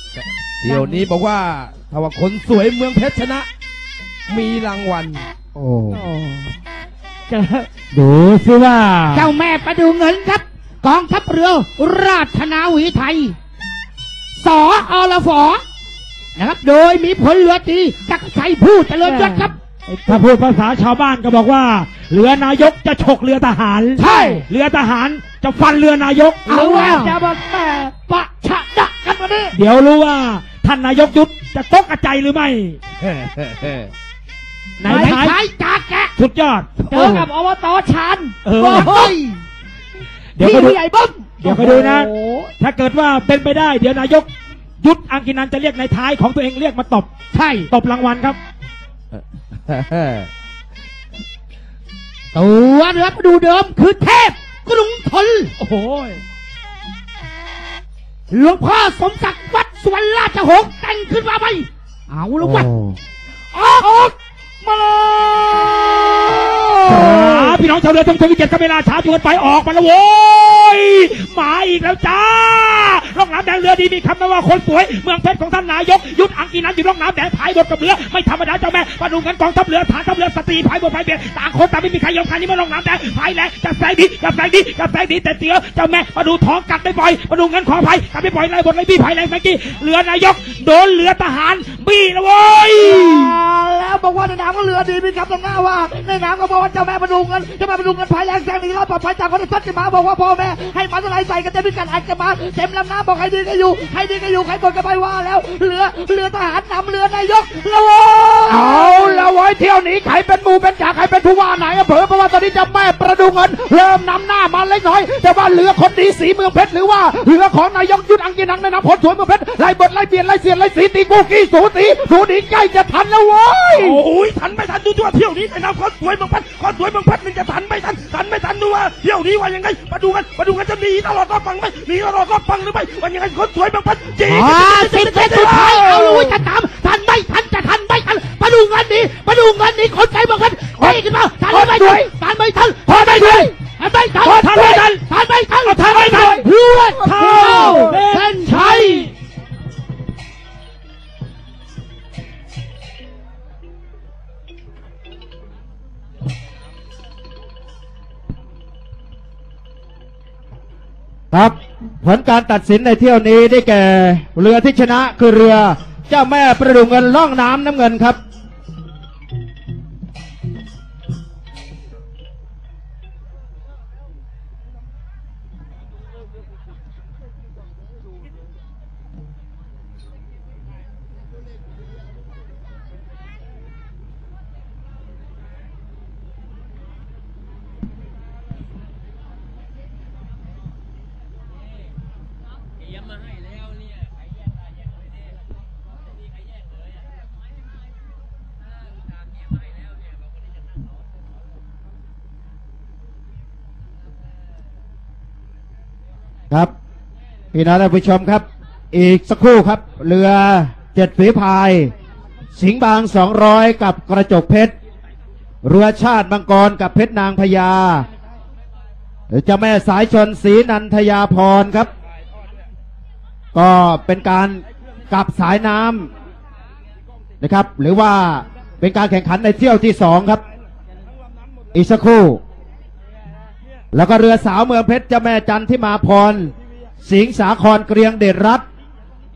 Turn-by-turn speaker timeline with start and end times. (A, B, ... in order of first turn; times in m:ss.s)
0:00.6-0:03.5 A
0:04.3-0:05.3 A
0:05.5-0:06.0 B
0:05.9-0:06.5 C
0:07.3-0:07.7 C
0:07.9-0:09.3 D
0:09.1-0:13.4 E
0:14.3-0:15.6 E
0:16.4-0:19.5 E
0:19.0-0:20.0 C
0:20.0-0:26.5 D
0:24.0-0:24.4 E
0:24.0-0:24.4 C
0:26.4-0:29.6 C
0:26.5-0:27.2 E
0:29.5-0:32.8 D
0:33.1-0:33.9 A
0:34.8-0:35.4 D
0:34.8-0:35.2 C
0:34.8-0:36.1 E
0:36.2-0:37.3 D
0:36.9-0:39.4 C
0:38.4-0:39.1 D
0:38.6-0:39.1 E
0:40.4-0:40.8 D
0:40.4-0:42.5 C
0:41.4-0:44.3 D
0:44.8-0:47.1 D
0:47.3-0:47.7 E
0:47.7-0:48.4 D
0:49.7-0:50.3 A
0:52.3-0:55.5 E
0:55.6-0:56.2 D
0:58.3-1:02.7 E
1:02.4-1:03.0 B
1:03.5-1:04.1 E
1:04.8-1:06.8 C
1:06.8-1:33.3 D
1:32.8-1:49.2 C
1:48.5-2:04.0 B
2:03.7-2:16.2 A
2:14.3-2:29.1 E
2:20.8-2:22.0 D
2:22.9-2:23.5 D
2:24.2-2:25.0 D
2:25.6-2:29.1 D
2:27.2-2:28.0 C
2:41.3-2:48.2 B
3:27.5-3:31.9 B
3:32.6-3:34.7 B
3:35.6-3:38.0 B
3:39.3-3:41.9 B
3:43.5-3:46.1 B
3:47.4-3:50.4 B
3:51.7-3:52.4 B
3:53.9-3:58.6 B